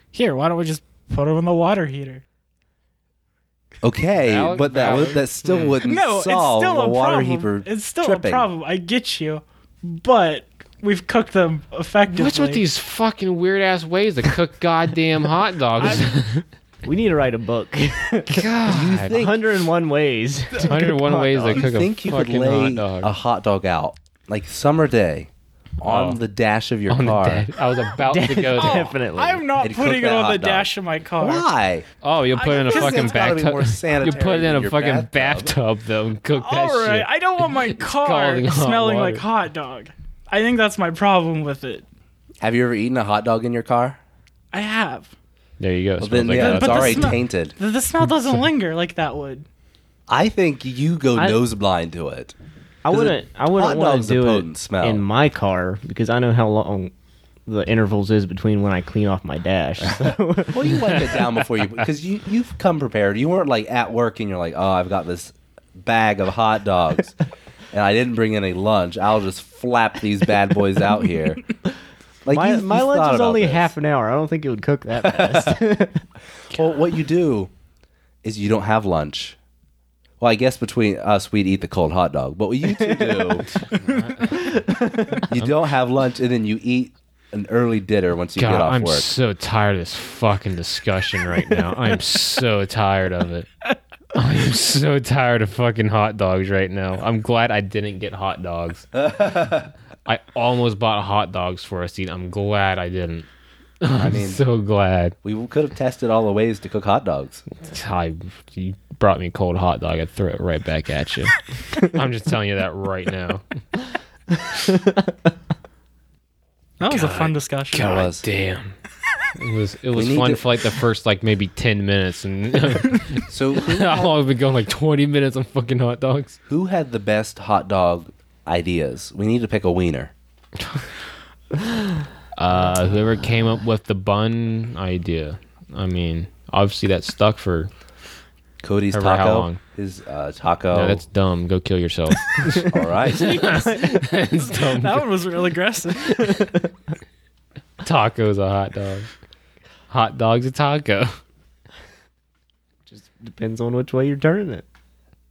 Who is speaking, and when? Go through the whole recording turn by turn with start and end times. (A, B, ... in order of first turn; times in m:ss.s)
0:00.1-0:02.2 A
0:03.8-0:08.5 B
0:04.2-0:05.8 C
0:05.8-0:12.6 A
0:12.1-0:16.4 C
0:15.8-0:16.1 A
0:16.8-0:18.5 D
0:18.3-0:19.2 C
0:18.7-0:19.5 B
0:19.1-0:21.6 D
0:20.6-0:23.1 C
0:21.5-0:27.5 B
0:25.8-0:26.2 C
0:26.9-0:28.9 C
0:28.0-0:29.4 D
0:28.6-0:31.4 A
0:29.6-0:31.9 B
0:32.0-0:39.2 C
0:32.4-0:33.4 A
0:32.4-0:35.5 B
0:34.0-0:34.4 A
0:36.4-0:41.8 A
0:42.4-0:44.0 B
0:44.5-0:45.1 A
0:45.6-0:47.2 C
0:46.0-0:47.6 B
0:46.3-0:49.5 A
0:48.0-0:48.4 C
0:50.1-0:52.4 B
0:52.8-0:56.9 D
0:52.9-0:55.0 B
0:57.5-1:00.9 D
1:00.5-1:07.2 B
1:00.8-1:01.2 C
1:07.7-1:11.4 B
1:12.2-1:13.7 B
1:12.3-1:16.0 D
1:15.0-1:15.6 B
1:16.5-1:17.5 B
1:18.2-1:19.4 B
1:20.2-1:23.5 B
1:22.8-1:23.4 D
1:23.6-1:24.6 C
1:24.4-1:25.3 D
1:25.3-1:29.1 B
1:28.4-1:33.5 C
1:34.1-1:38.9 C
1:38.9-1:39.7 B
1:40.1-1:43.3 C
1:43.8-1:45.2 C
1:44.0-1:44.4 B
1:45.2-1:47.4 B
1:47.6-1:53.4 C
1:56.8-1:58.0 A
1:56.9-1:58.7 C
1:57.8-1:58.2 B
1:59.4-2:06.4 C
1:59.9-2:00.4 B
2:03.3-2:04.1 B
2:06.5-2:10.1 B
2:12.4-2:17.7 C
2:18.6-2:21.0 B
2:18.9-2:19.6 C
2:20.7-2:25.1 C
2:22.7-2:23.5 B
2:23.1-2:26.6 A
2:27.8-2:29.1 C
2:29.9-2:31.2 C
2:32.9-2:34.6 D